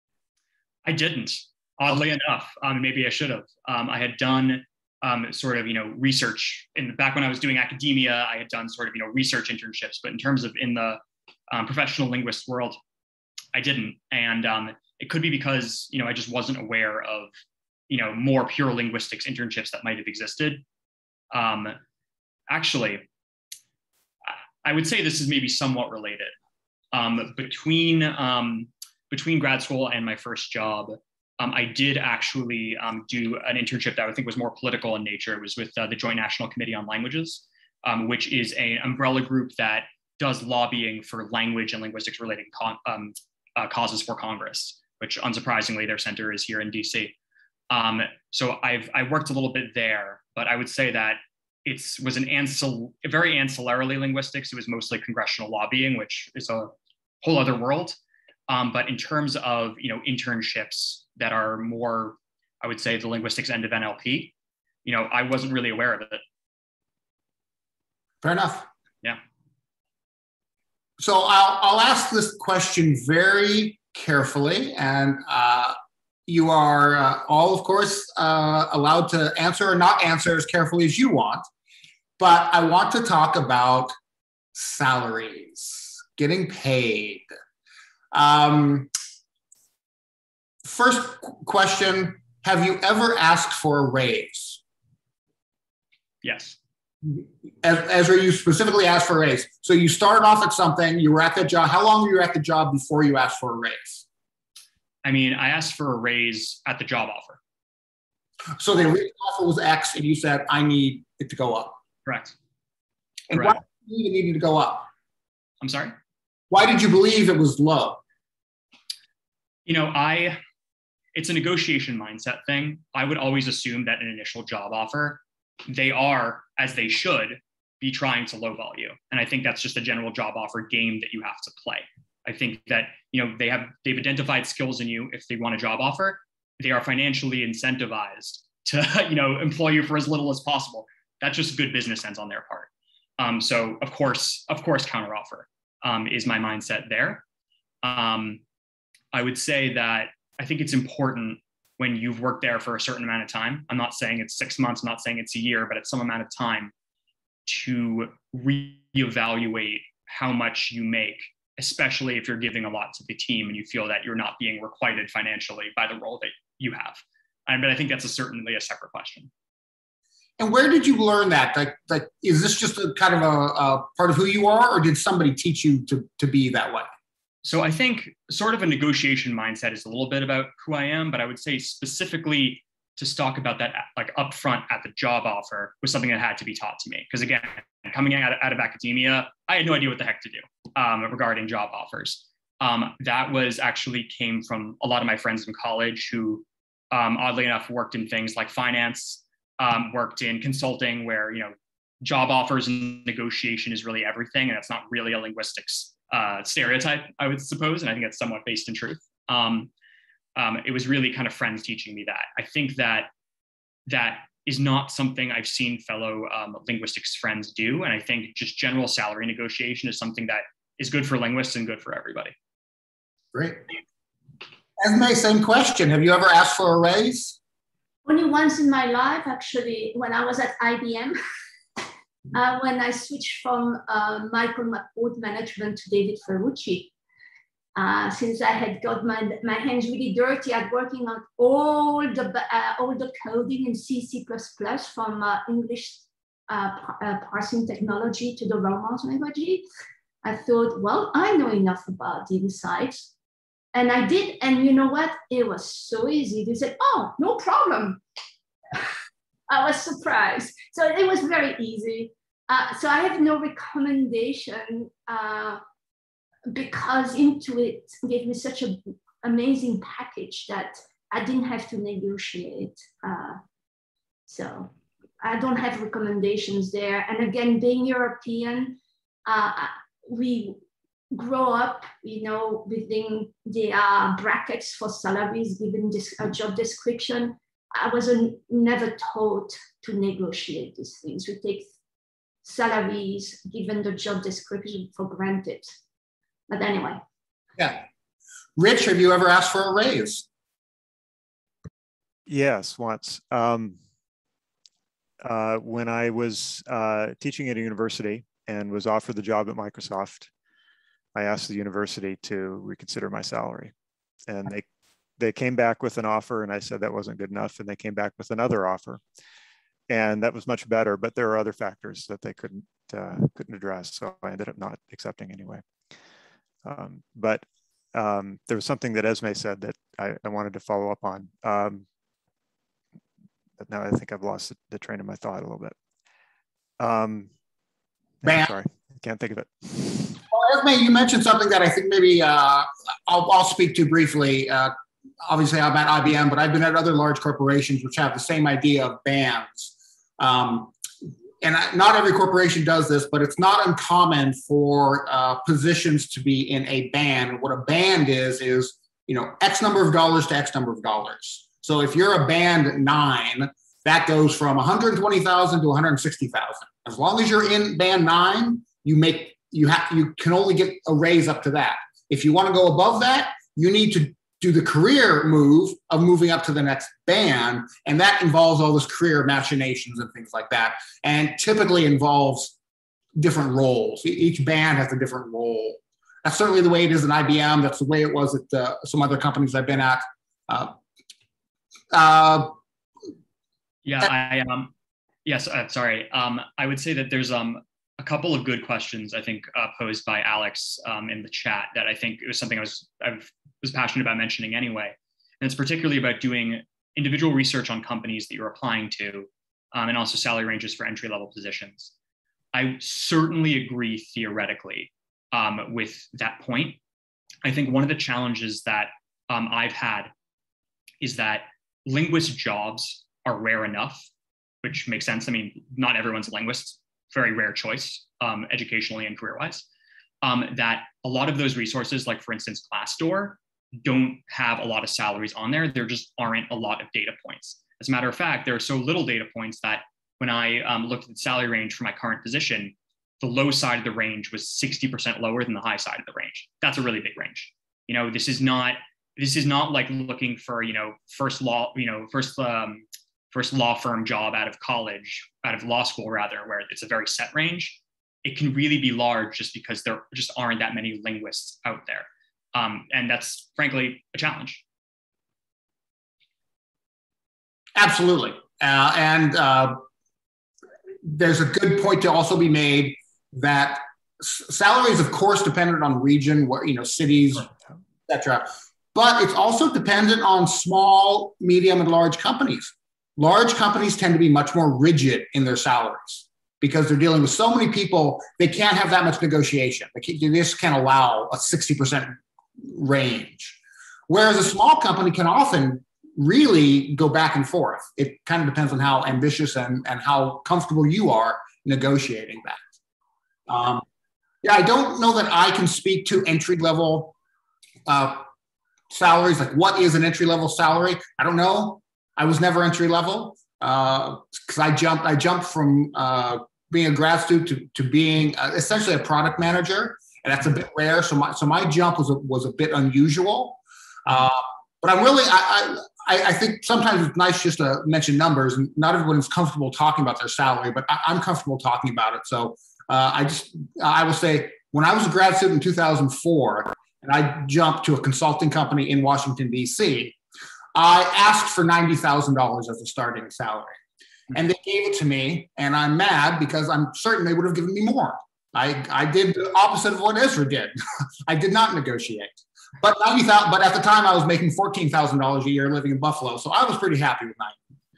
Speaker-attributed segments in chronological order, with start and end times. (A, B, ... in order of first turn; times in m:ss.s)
0:00.8-0:12.8 A
0:13.5-0:17.3 A
0:17.9-0:20.6 A
0:21.3-0:21.8 A
0:22.5-0:23.0 A
0:24.3-0:26.3 A
0:26.9-0:47.1 A
0:47.7-0:58.0 A
0:58.5-1:04.3 A
1:04.8-1:06.2 A
1:08.2-1:08.7 B
1:11.0-1:15.8 B
1:16.3-1:21.4 B
1:22.2-1:23.9 B
1:24.5-1:27.3 B
1:28.1-1:28.9 B
1:30.6-1:34.6 B
1:36.2-1:36.6 A
1:37.0-1:44.0 B
1:45.0-1:47.4 A
1:48.6-1:51.8 B
1:52.0-1:52.3 A
1:53.3-1:54.9 B
1:55.6-1:55.9 A
1:56.5-1:58.0 B
1:59.6-2:00.4 A
2:01.1-2:27.2 A
2:27.8-2:28.4 A
2:29.1-2:36.7 A
2:37.4-2:49.3 A
2:50.4-2:56.9 B
2:57.4-3:29.7 A
3:30.4-3:33.1 A
3:33.9-3:42.3 A
3:43.3-3:43.6 B
3:44.8-3:47.4 B
3:48.0-3:51.2 C
3:52.3-3:56.9 C
3:57.7-4:09.6 C
4:10.2-4:13.1 C
4:13.7-4:18.0 C
4:19.5-4:25.6 C
4:26.5-4:33.4 C
4:34.3-4:40.6 C
4:41.1-4:51.7 C
4:52.4-4:55.7 C
4:56.5-4:57.0 C
4:57.6-4:57.8 B
4:58.6-5:00.2 B
5:02.3-5:03.8 D
5:05.2-5:10.3 D
5:11.1-5:13.7 D
5:14.3-5:14.7 D
5:15.2-5:19.0 D
5:19.9-5:25.6 D
5:26.6-5:31.9 D
5:33.6-5:35.7 D
5:36.8-5:37.3 D
5:38.2-5:40.2 D
5:38.2-5:38.5 B
5:40.3-5:44.7 B
5:45.2-5:50.7 B
5:51.4-6:22.5 B
6:23.2-6:30.7 B
6:31.9-6:32.5 B
6:33.8-6:34.7 A
6:35.2-6:51.9 A
6:52.5-6:56.8 A
6:57.4-7:00.1 A
7:01.0-7:04.1 A
7:04.6-7:09.7 A
7:10.2-7:44.6 A
7:47.8-7:49.8 B
7:51.0-7:57.5 B
7:58.1-8:13.6 B
8:14.1-8:22.6 B
8:23.5-8:23.8 B
8:24.4-8:27.1 B
8:27.9-8:28.3 B
8:28.9-9:00.2 B
9:00.7-9:03.8 B
9:04.3-9:10.7 B
9:11.3-9:17.6 B